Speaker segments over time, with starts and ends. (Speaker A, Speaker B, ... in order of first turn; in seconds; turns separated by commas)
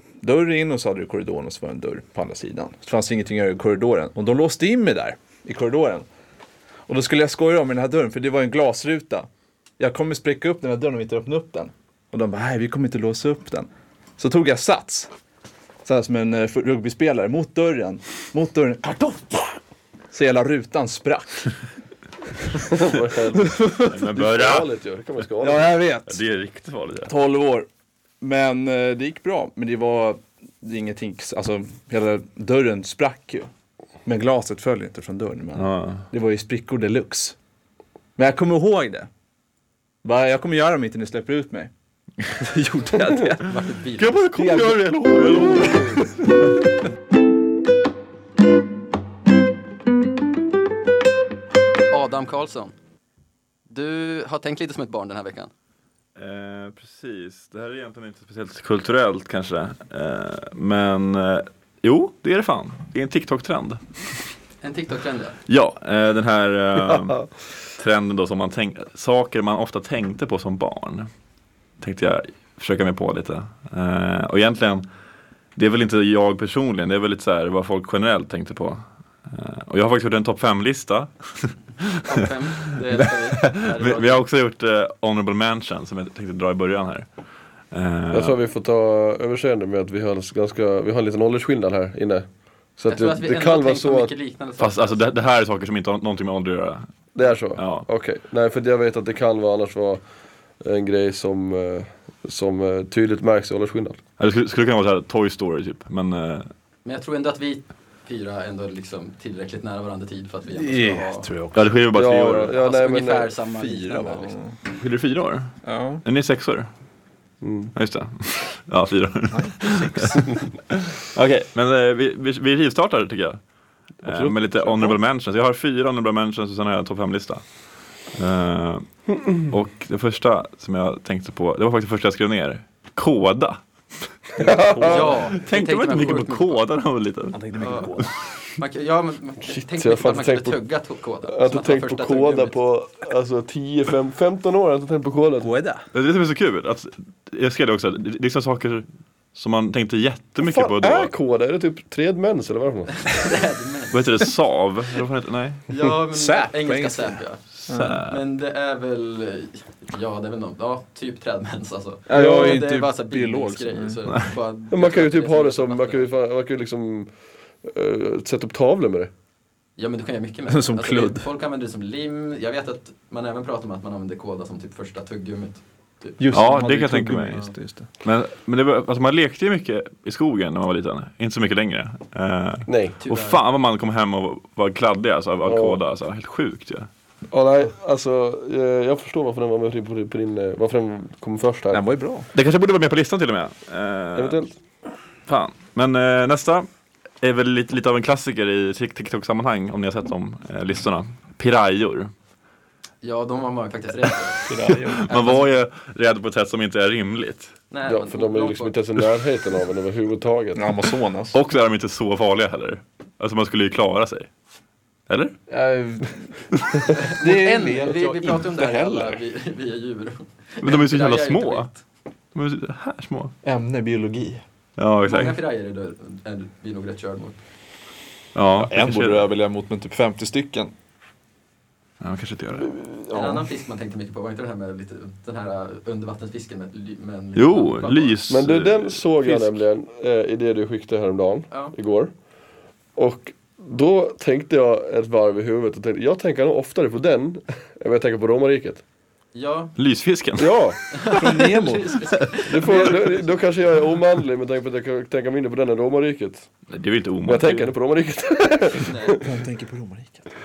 Speaker A: 0.2-6.0, Speaker A: 6.9-15.1, Speaker A: 15.8-19.6, Speaker A: 20.1-21.5, Speaker B: 22.6-25.6, Speaker A: 23.4-23.9, Speaker C: 23.9-24.7, Speaker A: 25.4-26.2, Speaker C: 26.1-27.1, Speaker A: 27.1-27.7, Speaker A: 28.2-33.5, Speaker A: 34.0-37.4, Speaker C: 35.5-36.0, Speaker A: 38.1-39.1, Speaker A: 40.0-41.7, Speaker A: 42.3-43.5, Speaker D: 43.4-44.3, Speaker C: 44.0-46.1, Speaker A: 44.3-45.9, Speaker B: 45.5-45.9, Speaker D: 51.9-52.7, Speaker D: 53.7-55.5, Speaker C: 56.1-64.0, Speaker D: 64.6-65.4, Speaker C: 65.5-71.1, Speaker B: 66.9-67.2, Speaker C: 71.8-74.8, Speaker C: 75.5-81.9, Speaker D: 82.0-84.2, Speaker C: 83.0-87.1, Speaker C: 87.7-88.3, Speaker B: 88.1-94.1, Speaker D: 92.9-95.1, Speaker C: 94.6-96.9, Speaker B: 97.1-100.0, Speaker C: 97.6-97.9, Speaker B: 100.6-104.0, Speaker C: 104.2-106.5, Speaker D: 106.8-111.3, Speaker A: 110.5-111.7, Speaker C: 111.5-112.5, Speaker B: 111.9-113.3, Speaker D: 112.5-114.3, Speaker A: 113.5-114.6, Speaker C: 114.8-116.7, Speaker A: 115.6-116.0, Speaker B: 117.4-117.7, Speaker C: 117.7-123.4, Speaker A: 119.3-120.3, Speaker C: 124.0-127.5, Speaker C: 128.1-133.6, Speaker A: 134.4-135.4, Speaker B: 134.4-135.2, Speaker D: 134.8-136.6, Speaker C: 135.3-137.4, Speaker A: 137.3-138.1, Speaker D: 137.6-137.9, Speaker D: 138.6-142.6, Speaker B: 139.6-140.6, Speaker B: 141.3-145.5, Speaker A: 145.4-145.8, Speaker C: 145.9-151.1, Speaker B: 150.4-153.3, Speaker D: 153.0-154.0, Speaker C: 153.9-155.6, Speaker D: 155.7-157.4, Speaker A: 156.1-158.0, Speaker C: 157.7-158.2, Speaker D: 157.9-166.1, Speaker A: 162.1-164.0, Speaker B: 162.1-162.6, Speaker B: 164.7-167.1, Speaker B: 167.6-169.1, Speaker D: 169.8-176.2, Speaker A: 170.5-171.2, Speaker A: 176.2-177.9, Speaker C: 176.3-177.4, Speaker C: 178.0-186.9, Speaker B: 182.7-182.9, Speaker D: 183.0-183.4, Speaker B: 185.4-185.8, Speaker B: 187.3-191.8, Speaker A: 191.7-192.3, Speaker C: 192.3-194.4, Speaker B: 194.1-194.5, Speaker C: 195.3-196.7, Speaker C: 197.2-202.1, Speaker D: 203.0-204.5, Speaker A: 204.5-205.4, Speaker C: 204.7-207.5, Speaker D: 205.1-205.3, Speaker D: 207.7-208.8, Speaker B: 207.9-210.7, Speaker A: 210.5-211.3, Speaker C: 211.3-214.3, Speaker C: 215.1-215.3, Speaker A: 215.5-219.2, Speaker D: 216.9-221.8, Speaker C: 220.6-221.7, Speaker C: 222.3-223.3, Speaker A: 223.4-224.4, Speaker C: 224.8-225.4, Speaker D: 225.1-227.4, Speaker C: 228.3-229.3, Speaker A: 228.6-230.7, Speaker C: 232.0-232.7, Speaker D: 233.1-238.2, Speaker A: 233.1-233.4, Speaker C: 237.3-239.6, Speaker B: 238.3-242.1, Speaker D: 241.5-241.7, Speaker B: 242.9-248.8, Speaker D: 249.3-249.7, Speaker C: 249.8-250.5, Speaker B: 250.4-250.8, Speaker D: 250.9-253.4, Speaker A: 251.1-252.2, Speaker B: 252.5-256.5, Speaker C: 256.7-257.7, Speaker B: 257.2-259.3, Speaker D: 258.9-259.2, Speaker A: 259.2-260.3